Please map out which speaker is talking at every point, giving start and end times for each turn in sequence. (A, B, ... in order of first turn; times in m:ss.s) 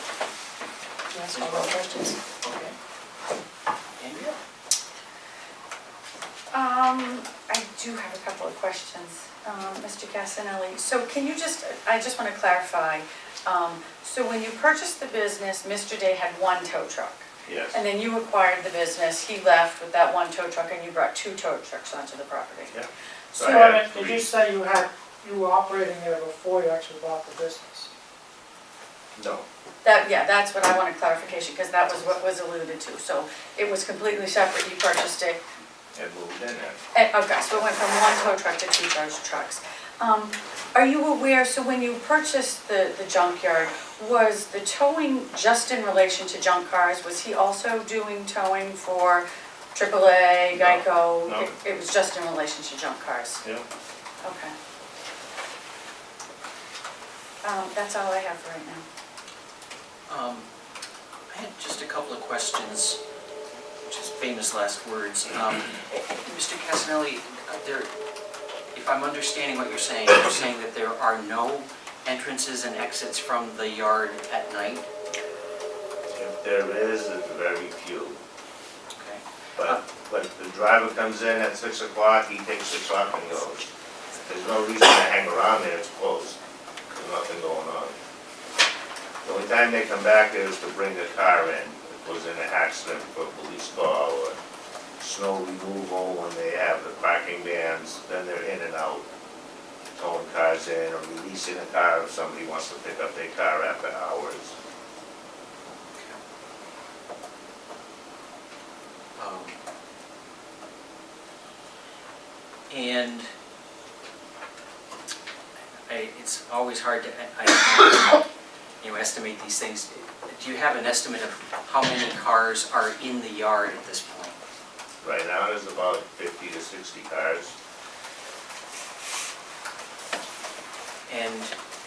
0:01.1-0:02.2 A
0:01.3-0:01.8 B
0:02.3-0:02.8 B
0:04.0-0:04.4 B
0:06.5-0:17.2 A
0:17.5-0:17.8 C
0:17.7-0:22.7 A
0:22.7-0:24.3 C
0:23.4-0:27.9 D
0:29.2-0:29.4 C
0:29.8-0:35.4 A
0:36.0-0:36.8 C
0:36.9-0:53.4 A
0:50.5-0:51.5 C
0:54.2-0:54.5 A
0:57.4-0:58.8 A
1:00.1-1:00.5 B
1:01.3-1:03.0 B
1:03.8-1:07.9 B
1:08.7-1:14.9 B
1:16.1-1:18.2 C
1:19.0-1:19.8 B
1:19.6-1:23.7 C
1:24.3-1:28.0 C
1:29.2-1:34.4 C
1:35.0-1:39.0 C
1:40.0-1:44.6 C
1:46.0-1:46.2 B
1:49.2-1:49.6 B
1:52.7-1:53.3 B
1:55.9-1:58.2 B
1:58.8-2:04.4 B
2:05.0-2:07.6 C
2:11.1-2:11.5 B